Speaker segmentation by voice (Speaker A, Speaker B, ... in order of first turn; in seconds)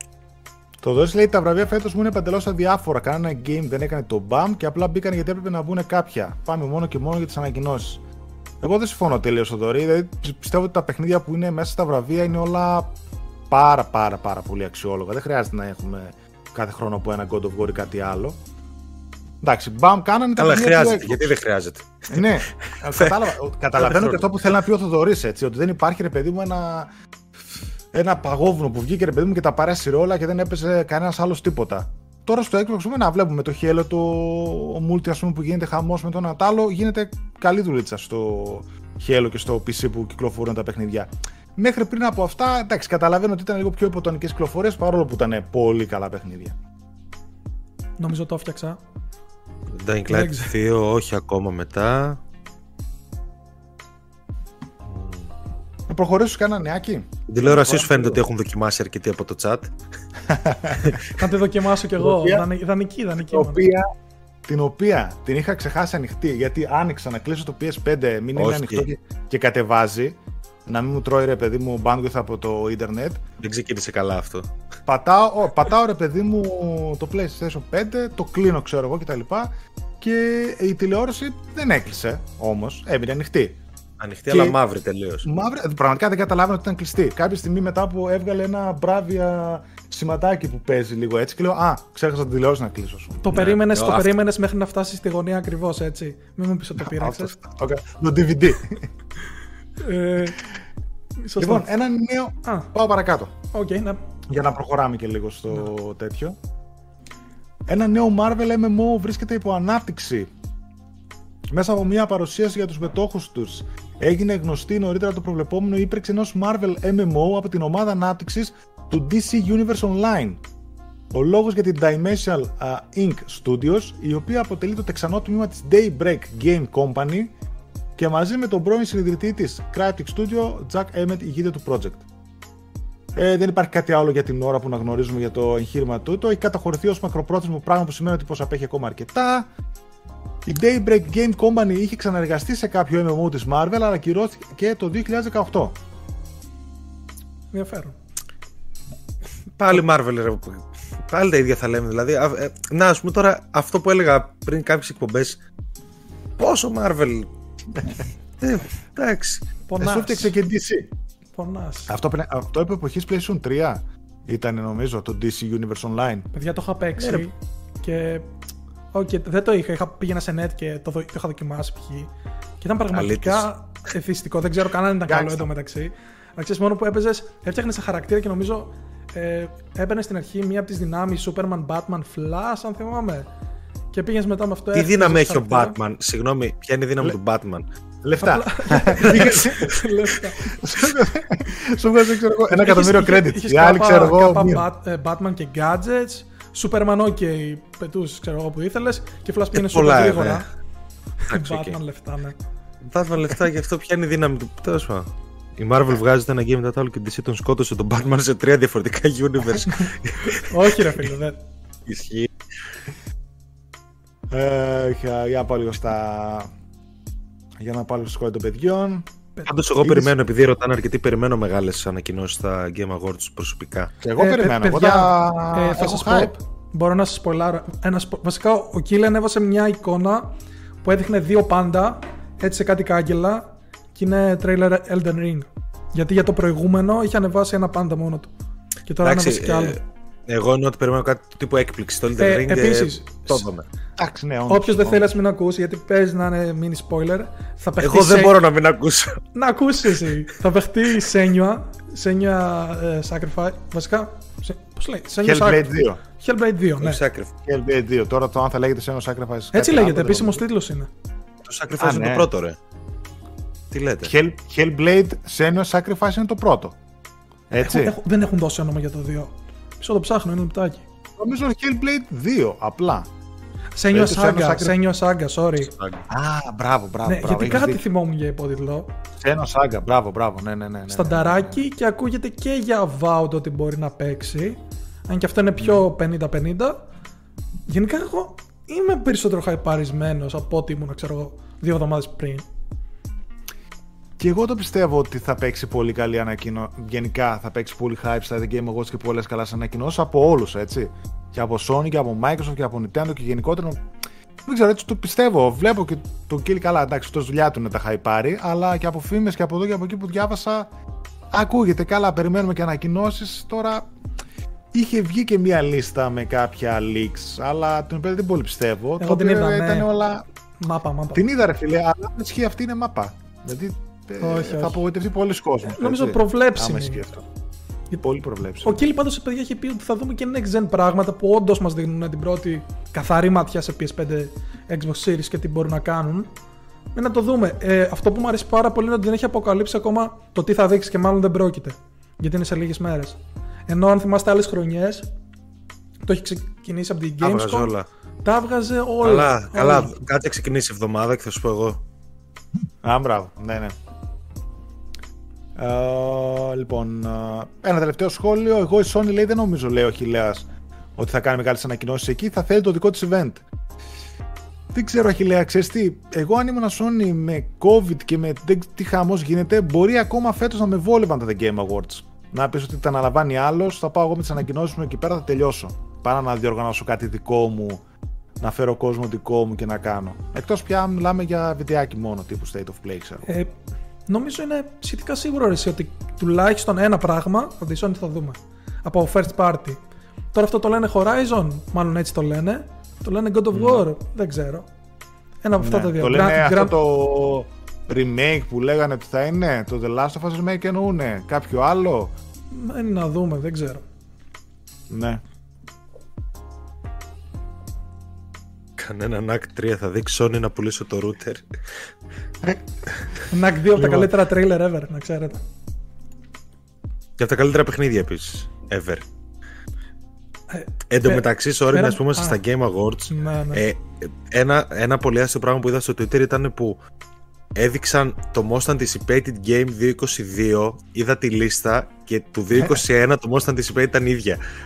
Speaker A: 0.8-8.0, 8.6-12.9, 13.5-18.4, 19.4-21.3, 22.1-26.9, 27.9-46.6, 55.9-58.2, 60.2-61.0, 62.0-62.5, 63.2-63.9, 64.5-73.2, 74.9-83.6, 84.3-84.6, 85.2-93.2, 96.8-98.9, 101.4-103.3, 104.3-106.4, 107.7-110.3, 111.5-120.4, 121.1-127.3, 128.0-132.1, 133.1-139.5, 140.4-145.8, 159.8-160.9, 161.9-166.3, 175.1-175.5, 188.0-189.8, 190.5-194.7, 214.3-216.5, 217.6-219.1, 219.8-220.1, 224.0-226.3, 244.0-245.1, 255.2-256.0, 257.5-260.4, 261.8-262.3, 264.0-266.8, 267.5-268.0, 271.2-273.1, 273.9-274.8, 276.1-277.8, 279.2-281.6, 285.6-285.8, 294.2-303.8, 304.4-310.7, 311.3-313.9, 314.7-320.3, 321.1-327.2, 328.0-328.8, 352.8-353.8, 355.6-363.4, 364.7-377.8, 378.4-383.3, 393.5-393.9, 395.6-402.1, 404.9-405.2
Speaker B: 20.4-24.3, 49.7-52.2, 54.9-55.3, 57.3-59.7, 68.4-68.9, 73.4-74.5, 84.0-85.3, 93.3-94.1, 149.6-155.4, 156.4-157.3, 158.4-159.4, 167.0-167.3, 172.9-173.5, 184.7-187.7, 189.1-189.6, 199.5-200.4, 201.3-201.8, 202.8-211.1, 211.9-212.3, 219.5-223.9, 239.0-243.7, 247.8-249.2, 256.8-257.3, 261.4-262.6, 263.7-264.1, 275.7-276.0, 347.2-347.9, 349.0-351.8, 408.8-411.6, 417.2-419.1, 420.9-426.8, 427.6-434.4
Speaker C: 48.0-48.8, 50.1-50.5, 61.1-63.6, 93.2-97.3, 99.8-100.4, 101.2-101.7, 102.5-102.7, 103.5-104.0, 147.5-148.0, 159.7-160.3, 161.3-162.0, 166.3-168.3, 168.9-172.1, 172.6-183.3, 183.9-185.8, 188.2-190.6, 192.5-200.5, 201.2-202.4, 210.3-211.4, 224.2-238.3, 238.9-239.8, 242.2-243.5, 244.5-248.4, 249.3-257.0, 259.5-260.9, 267.6-270.9, 273.8-275.7, 277.1-278.9, 280.9-286.8, 287.7-292.5, 319.0-319.9, 320.6-321.2, 324.2-324.8, 325.7-327.1, 328.6-336.3, 336.9-345.1, 346.1-350.0, 383.3-383.5, 384.1-389.8, 390.3-394.7, 395.4-396.8, 402.5-403.8, 413.3-415.4, 420.5-422.4, 423.1-423.6